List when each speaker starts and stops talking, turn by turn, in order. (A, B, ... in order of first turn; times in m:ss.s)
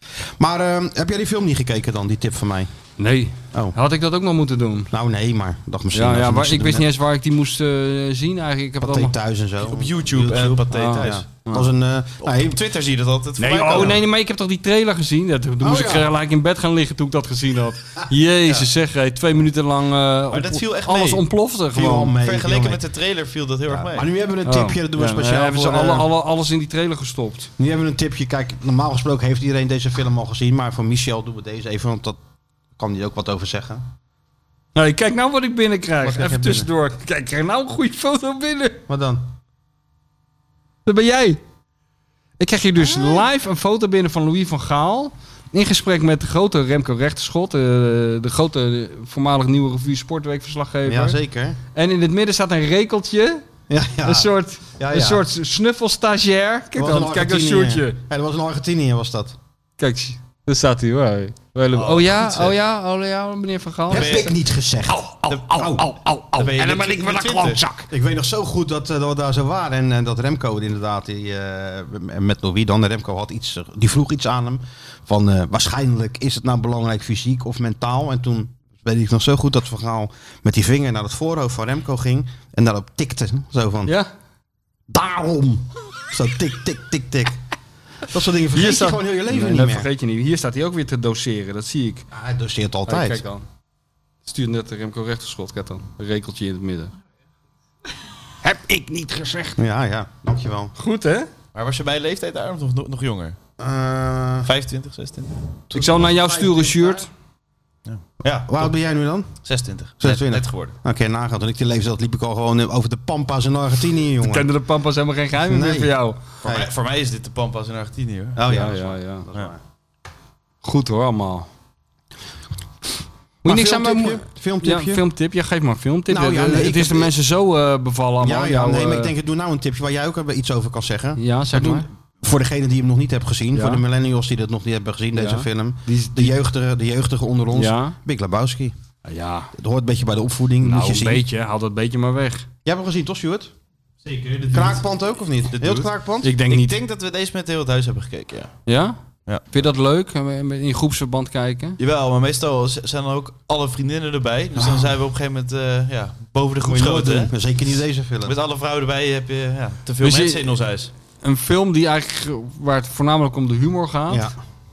0:00.4-0:02.7 A
0:03.0-0:04.9 B
0:04.9-0:06.9 A
0:05.9-0:09.1 B
0:08.8-0:12.6 A
0:09.6-0:11.2 C
0:10.7-0:11.7 B
0:12.2-0:14.0 C
0:13.4-0:22.1 B
0:15.6-0:16.1 A
0:20.3-0:21.2 C
0:21.7-0:22.8 A
0:22.2-0:24.1 C
0:23.7-0:26.1 A
0:24.4-0:27.5 B
0:27.6-0:32.2 A
0:32.8-0:33.9 A
0:34.7-0:38.8 B
0:36.0-0:36.7 A
0:38.9-0:39.3 A
0:40.8-0:41.4 B
0:42.4-0:51.2 B
0:42.8-0:43.3 A
0:50.8-0:51.6 A
0:51.7-0:53.4 B
0:53.7-0:55.2 A
0:54.0-0:58.0 B
0:56.7-0:59.4 A
0:59.8-1:04.2 B
1:01.7-1:02.5 C
1:03.9-1:05.9 A
1:03.9-1:04.3 C
1:04.9-1:07.9 B
1:06.4-1:07.6 C
1:07.9-1:23.9 A
1:24.9-1:27.4 A
1:28.0-1:29.9 A
1:28.5-1:32.1 B
1:32.1-1:33.2 A
1:32.8-1:33.4 B
1:34.2-1:36.9 B
1:38.4-1:39.6 B
1:39.6-1:40.7 A
1:40.8-1:41.3 B
1:41.5-1:43.4 C
1:43.6-1:44.5 A
1:44.4-1:45.4 C
1:45.7-1:47.0 A
1:45.7-1:47.1 B
1:47.8-1:48.7 C
1:48.2-1:49.4 A
1:49.4-1:50.7 C
1:50.0-1:54.5 A
1:54.2-1:56.2 B
1:55.4-1:56.7 A
1:56.4-1:58.4 C
1:58.4-1:59.6 A
1:58.5-1:59.3 B
2:00.6-2:01.5 B
2:03.4-2:09.1 B
2:03.4-2:05.0 A
2:06.1-2:07.1 A
2:08.2-2:18.7 A
2:11.2-2:11.9 B
2:13.5-2:13.8 B
2:15.1-2:16.4 B
2:17.5-2:18.0 B
2:19.0-2:19.5 B
2:19.5-2:21.2 A
2:20.6-2:22.5 B
2:22.6-2:23.5 A
2:24.0-2:24.8 C
2:24.5-2:26.3 A
2:25.5-2:25.9 C
2:26.2-2:26.8 B
2:26.5-2:28.5 C
2:28.6-2:29.0 B
2:29.5-2:31.8 B
2:31.8-2:37.3 C
2:34.6-2:34.9 A
2:36.6-2:38.3 A
2:38.2-2:40.9 C
2:40.0-2:40.5 B
2:41.2-2:44.3 B
2:44.1-2:44.3 A